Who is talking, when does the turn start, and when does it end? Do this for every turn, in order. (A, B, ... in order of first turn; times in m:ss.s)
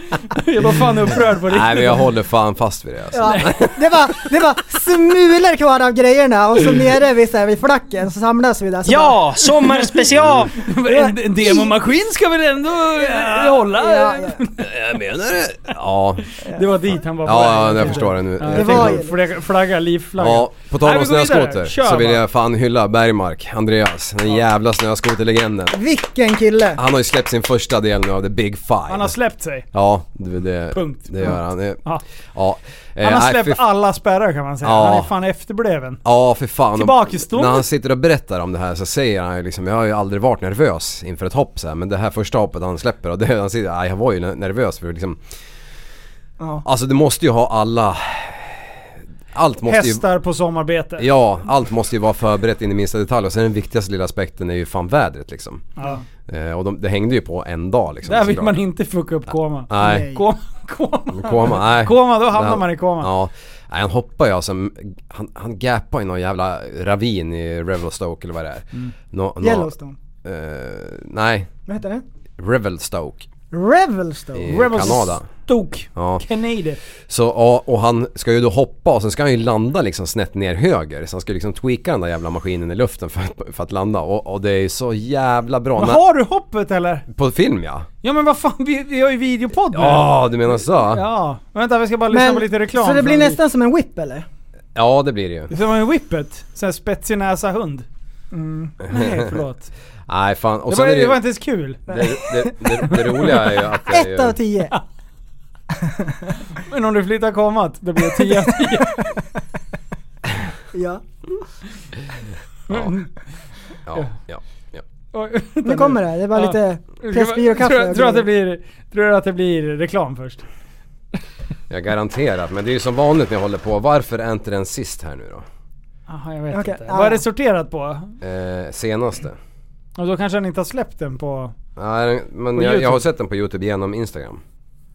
0:00.3-0:02.1 A
0:01.4-0:03.8 B
0:03.1-0:09.4 C
0:08.9-0:14.7 A
0:10.1-0:10.5 B
0:10.6-0:11.8 C
0:13.0-0:14.4 C
0:14.6-0:16.3 B
0:16.5-0:22.2 A
0:17.2-0:19.0 B
0:18.5-0:19.2 C
0:20.2-0:25.8 B
0:25.7-0:26.8 C
0:26.8-0:29.2 B
0:28.9-0:29.7 A
0:29.7-0:33.6 B
0:30.7-0:32.0 A
0:33.0-0:36.0 A
0:34.6-0:35.1 B
0:36.0-0:45.2 B
0:36.8-0:37.7 A
0:46.4-0:46.6 C
0:46.6-0:48.7 B
0:49.3-0:50.0 B
0:49.6-0:51.1 A
0:51.0-0:55.7 B
0:56.3-0:58.6 B
0:58.0-1:03.1 A
0:59.7-1:00.1 B
0:59.8-1:00.2 C
1:01.1-1:09.7 B
1:09.4-1:10.0 C
1:10.2-1:11.5 B
1:11.7-1:12.0 C
1:12.4-1:13.3 B
1:13.5-1:14.7 C
1:14.4-1:15.3 B
1:14.5-1:16.8 A
1:16.0-1:16.2 B
1:17.1-1:26.0 B
1:25.8-1:27.1 A
1:27.1-1:27.9 B
1:28.0-1:33.4 A
1:29.7-1:31.0 B
1:32.1-1:34.3 C
1:34.8-1:35.5 B
1:35.5-1:37.9 A
1:38.3-1:38.7 C
1:38.8-1:39.7 A
1:38.8-1:39.4 B
1:40.1-1:41.2 B
1:40.7-1:42.2 A
1:41.9-1:44.4 B
1:42.9-1:43.6 A
1:43.8-1:44.7 C
1:45.8-1:46.3 C
1:46.6-1:49.2 A
1:48.2-1:48.7 C
1:50.7-1:51.0 C
1:52.7-1:53.1 A
1:52.7-1:52.9 B
1:53.9-1:54.8 B
1:55.1-2:00.4 A
1:55.6-1:58.3 C
2:01.7-2:05.4 B
2:06.1-2:08.2 A
2:06.5-2:07.2 C
2:08.2-2:09.4 B
2:10.0-2:11.5 A
2:11.8-2:14.4 B
2:12.6-2:13.0 A